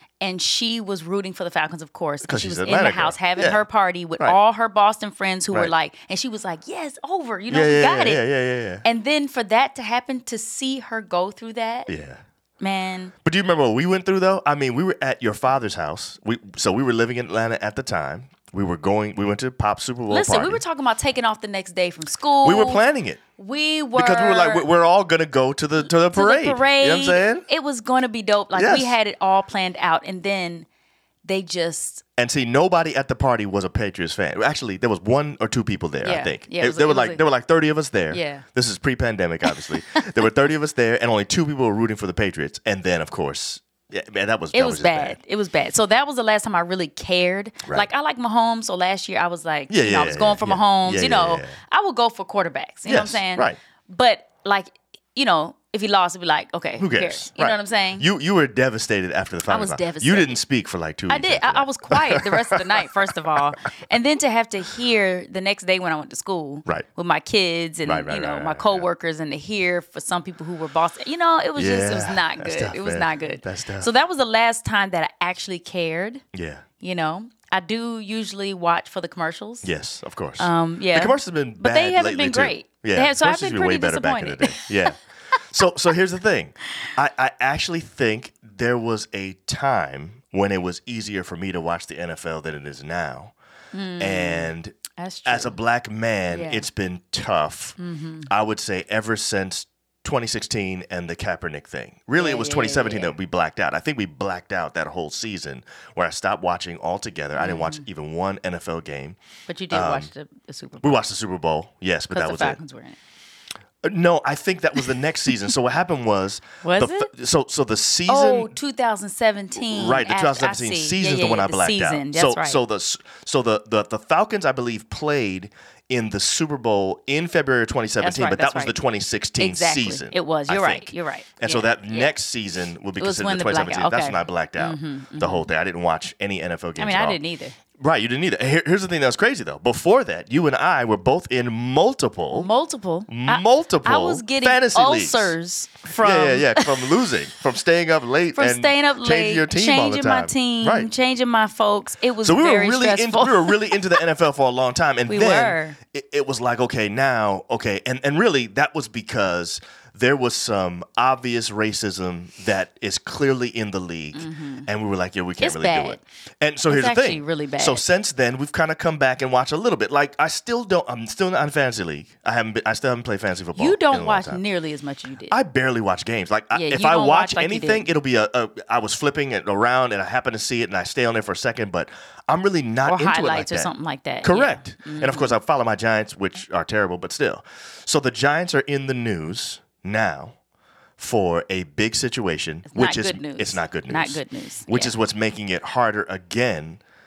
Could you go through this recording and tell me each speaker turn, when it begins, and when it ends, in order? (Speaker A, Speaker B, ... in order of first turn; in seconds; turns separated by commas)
Speaker A: 0.2-8.3, Speaker B: 2.2-3.6, Speaker B: 7.5-8.8, Speaker A: 8.8-11.9, Speaker B: 11.9-12.2, Speaker A: 12.6-13.1, Speaker B: 13.2-20.6, Speaker A: 20.1-22.8, Speaker B: 22.4-23.2, Speaker A: 23.4-24.7, Speaker B: 23.9-27.4, Speaker A: 25.8-30.7, Speaker B: 28.5-28.9, Speaker A: 31.2-32.0, Speaker B: 32.2-45.2, Speaker A: 36.0-37.2, Speaker A: 38.1-38.4, Speaker A: 39.5-40.2, Speaker A: 44.5-58.0, Speaker B: 49.7-51.6, Speaker B: 52.8-53.6, Speaker B: 56.8-62.9, Speaker A: 59.5-60.4, Speaker A: 61.1-76.2, Speaker B: 67.8-68.9, Speaker B: 71.5-73.9, Speaker B: 76.3-76.6, Speaker A: 76.8-79.7, Speaker B: 79.6-85.0, Speaker A: 80.4-85.0, Speaker B: 85.5-93.3, Speaker A: 93.7-95.6, Speaker B: 94.0-109.2, Speaker A: 96.3-96.7, Speaker A: 97.8-98.3, Speaker A: 102.2-103.1, Speaker A: 107.4-107.8, Speaker A: 109.5-111.0, Speaker B: 109.7-110.1, Speaker B: 110.8-112.6, Speaker A: 112.1-113.0, Speaker B: 113.8-118.5, Speaker A: 116.6-117.1, Speaker A: 118.1-122.6, Speaker B: 119.6-137.2, Speaker A: 128.0-128.8, Speaker A: 129.4-132.1, Speaker A: 133.0-135.5, Speaker A: 136.8-137.6, Speaker B: 137.8-142.5, Speaker A: 142.3-147.0, Speaker B: 143.1-145.3, Speaker B: 145.9-150.9, Speaker A: 148.3-153.7, Speaker B: 152.2-174.4, Speaker A: 155.1-155.8, Speaker A: 164.1-164.7, Speaker A: 165.4-166.0, Speaker A: 166.7-167.8, Speaker A: 173.5-175.3, Speaker B: 175.3-190.3, Speaker A: 176.5-177.9, Speaker A: 182.8-185.3, Speaker B: 191.0-196.8, Speaker A: 192.7-194.9